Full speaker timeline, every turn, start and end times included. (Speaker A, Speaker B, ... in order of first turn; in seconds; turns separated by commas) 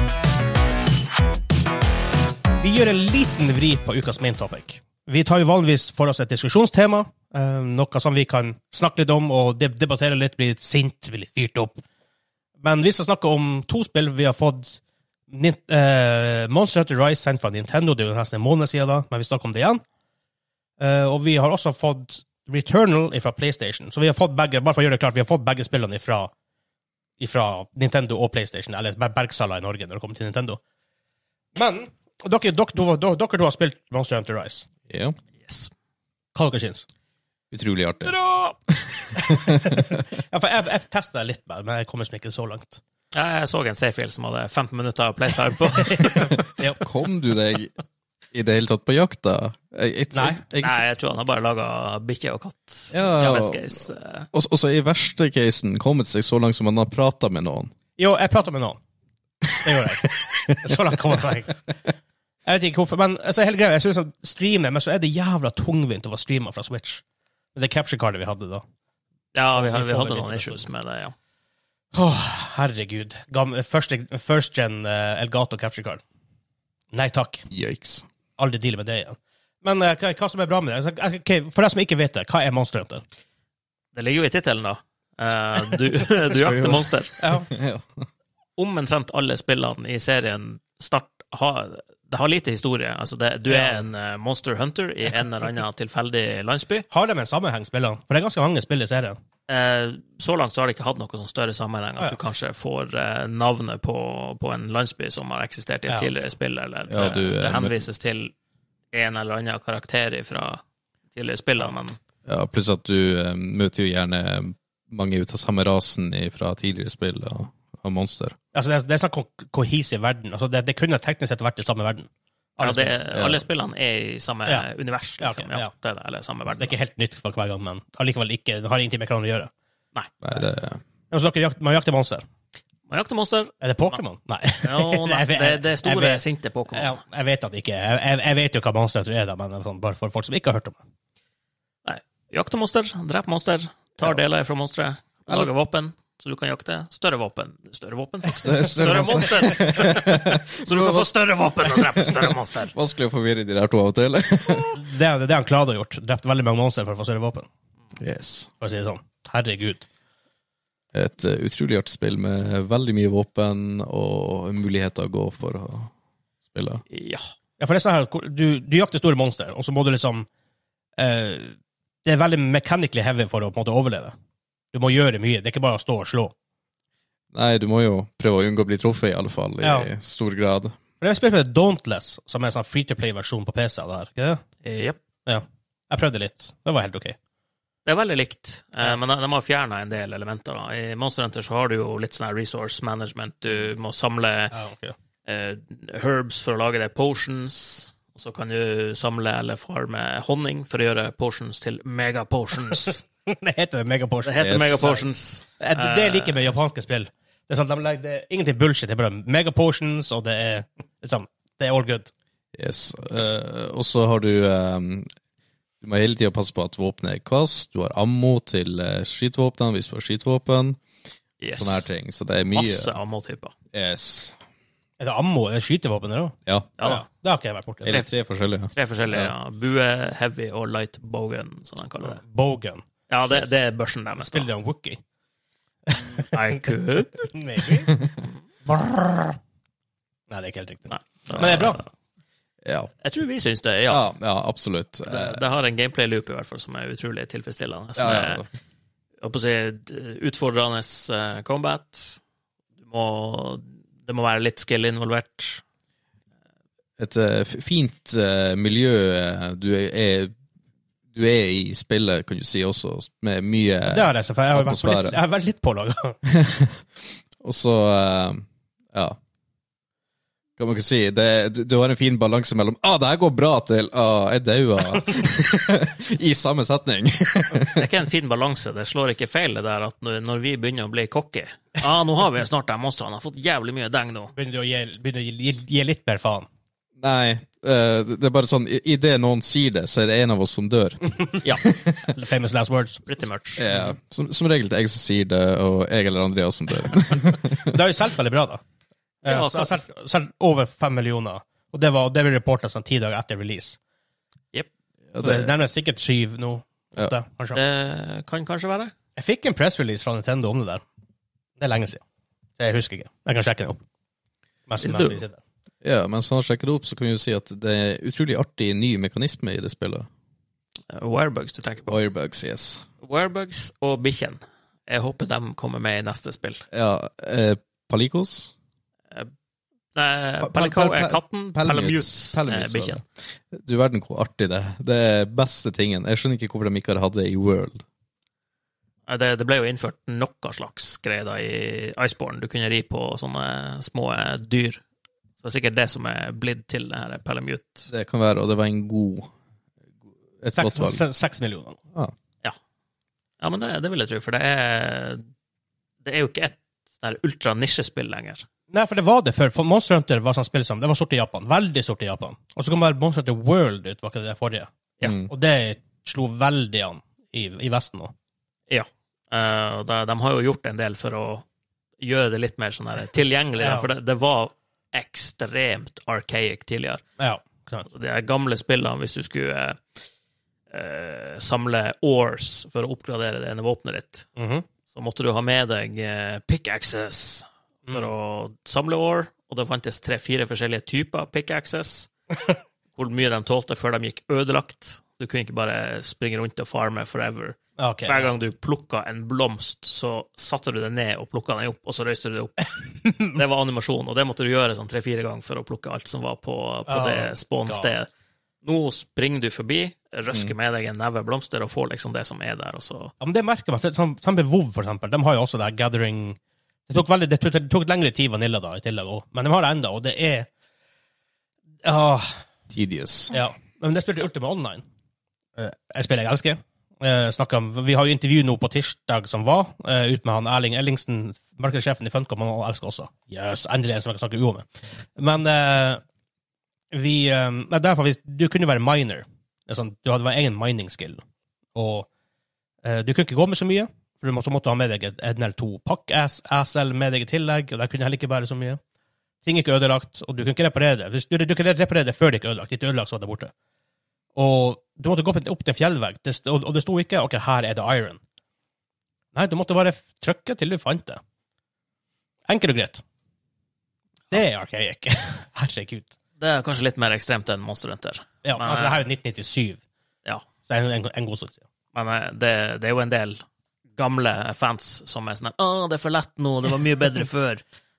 Speaker A: 2.6-11.8, Speaker A: 12.6-19.8, Speaker A: 20.8-26.3, Speaker A: 27.2-30.6, Speaker A: 31.6-34.7, Speaker B: 34.9-35.2, Speaker C: 35.4-35.7, Speaker A: 36.3-36.9, Speaker B: 37.5-38.2, Speaker C: 38.0-38.5, Speaker B: 38.8-40.0, Speaker A: 39.3-42.8, Speaker C: 43.1-46.4, Speaker A: 45.8-46.8, Speaker B: 46.4-47.7, Speaker B: 48.3-50.8, Speaker A: 50.1-50.4, Speaker C: 50.6-54.3, Speaker B: 52.9-53.8, Speaker B: 54.3-57.7, Speaker A: 58.0-58.8, Speaker A: 59.6-61.6, Speaker A: 62.5-67.0, Speaker A: 67.5-68.6, Speaker C: 69.3-71.1, Speaker A: 69.5-70.6, Speaker A: 71.9-76.0, Speaker A: 76.9-77.5, Speaker B: 77.5-78.0, Speaker A: 78.4-83.0, Speaker C: 83.9-87.2, Speaker B: 86.3-88.1, Speaker A: 87.2-87.5, Speaker C: 88.6-96.8, Speaker A: 93.5-93.8, Speaker A: 96.9-99.2, Speaker C: 99.5-108.3, Speaker B: 106.9-107.7, Speaker C: 108.9-112.0, Speaker B: 112.2-118.4, Speaker A: 118.5-122.9, Speaker C: 122.6-126.8, Speaker B: 123.1-123.4, Speaker A: 125.2-125.7, Speaker A: 126.6-129.5, Speaker B: 130.2-130.8, Speaker A: 131.1-132.2, Speaker C: 132.9-134.0, Speaker A: 133.6-140.8, Speaker C: 134.6-137.0, Speaker C: 141.8-152.7, Speaker B: 148.4-154.8, Speaker A: 154.7-157.5, Speaker B: 158.0-158.5, Speaker A: 158.6-159.8, Speaker B: 160.9-165.9, Speaker B: 166.5-166.8, Speaker C: 166.9-167.3, Speaker A: 167.6-170.3, Speaker A: 171.0-174.1, Speaker A: 174.7-176.3, Speaker B: 177.3-180.8, Speaker A: 179.6-179.9, Speaker A: 181.0-184.4, Speaker C: 184.6-185.0, Speaker A: 185.2-187.2, Speaker C: 187.8-194.5, Speaker A: 194.5-194.9, Speaker C: 195.2-203.0, Speaker A: 203.2-205.1, Speaker C: 204.2-206.4, Speaker B: 204.4-204.9, Speaker A: 205.6-212.1, Speaker B: 212.5-215.1, Speaker B: 215.8-220.8, Speaker C: 221.4-221.8, Speaker B: 221.5-222.9, Speaker C: 222.5-223.5, Speaker B: 223.7-224.4, Speaker A: 225.0-228.0, Speaker B: 226.5-226.7, Speaker B: 227.8-229.3, Speaker C: 228.7-232.2, Speaker A: 232.0-233.6, Speaker C: 233.1-234.5, Speaker A: 234.2-235.0, Speaker A: 235.9-237.9, Speaker C: 236.3-237.3, Speaker A: 238.7-239.4, Speaker A: 240.3-241.8, Speaker C: 240.9-241.8, Speaker B: 242.6-242.9, Speaker C: 243.0-244.0, Speaker B: 243.9-245.4, Speaker C: 245.1-248.4, Speaker B: 248.0-248.5, Speaker C: 249.2-252.2, Speaker C: 252.8-255.6, Speaker B: 257.0-260.3, Speaker B: 261.1-265.2, Speaker A: 263.9-266.2, Speaker B: 266.2-269.2, Speaker B: 270.6-277.8, Speaker C: 277.7-284.3, Speaker A: 284.3-286.5, Speaker B: 287.0-292.1, Speaker A: 292.0-293.3, Speaker C: 293.1-293.7, Speaker B: 293.6-297.8, Speaker A: 297.5-298.6, Speaker A: 299.2-303.8, Speaker C: 299.2-299.8, Speaker B: 305.1-305.5, Speaker A: 305.2-307.6, Speaker C: 307.5-308.9, Speaker A: 309.1-310.8, Speaker A: 311.6-312.0, Speaker A: 312.6-313.8, Speaker A: 314.7-315.4, Speaker C: 314.8-315.2, Speaker B: 315.8-320.1, Speaker C: 320.9-322.0, Speaker B: 321.9-322.9, Speaker C: 323.0-326.6, Speaker B: 326.7-328.5, Speaker C: 329.9-333.0, Speaker B: 330.4-337.9, Speaker C: 339.1-344.8, Speaker C: 345.4-347.9, Speaker B: 347.9-349.3, Speaker B: 350.4-351.0, Speaker A: 350.6-351.8, Speaker C: 353.4-355.2, Speaker C: 356.0-358.4, Speaker A: 358.7-364.7, Speaker B: 365.0-365.3, Speaker A: 365.3-368.1, Speaker C: 368.7-371.4, Speaker C: 372.0-377.0, Speaker A: 373.6-373.9, Speaker A: 377.2-377.9, Speaker C: 377.9-380.0, Speaker C: 380.7-384.3, Speaker A: 384.4-384.6, Speaker C: 384.9-392.1, Speaker C: 392.9-408.1, Speaker A: 397.8-398.3, Speaker A: 406.9-407.9, Speaker C: 408.6-413.1, Speaker A: 413.2-416.4, Speaker A: 416.9-420.5, Speaker A: 421.8-422.4, Speaker B: 422.7-423.3, Speaker A: 423.3-424.8, Speaker A: 425.6-434.6, Speaker A: 435.2-436.0, Speaker A: 436.9-441.2, Speaker A: 441.7-442.1, Speaker A: 442.8-448.8, Speaker A: 449.4-453.5, Speaker A: 454.3-458.2, Speaker A: 459.3-461.2, Speaker A: 462.5-463.0, Speaker A: 464.3-466.1, Speaker C: 466.4-469.0, Speaker A: 468.4-469.8, Speaker A: 470.7-471.6, Speaker C: 471.9-473.4, Speaker C: 473.9-477.6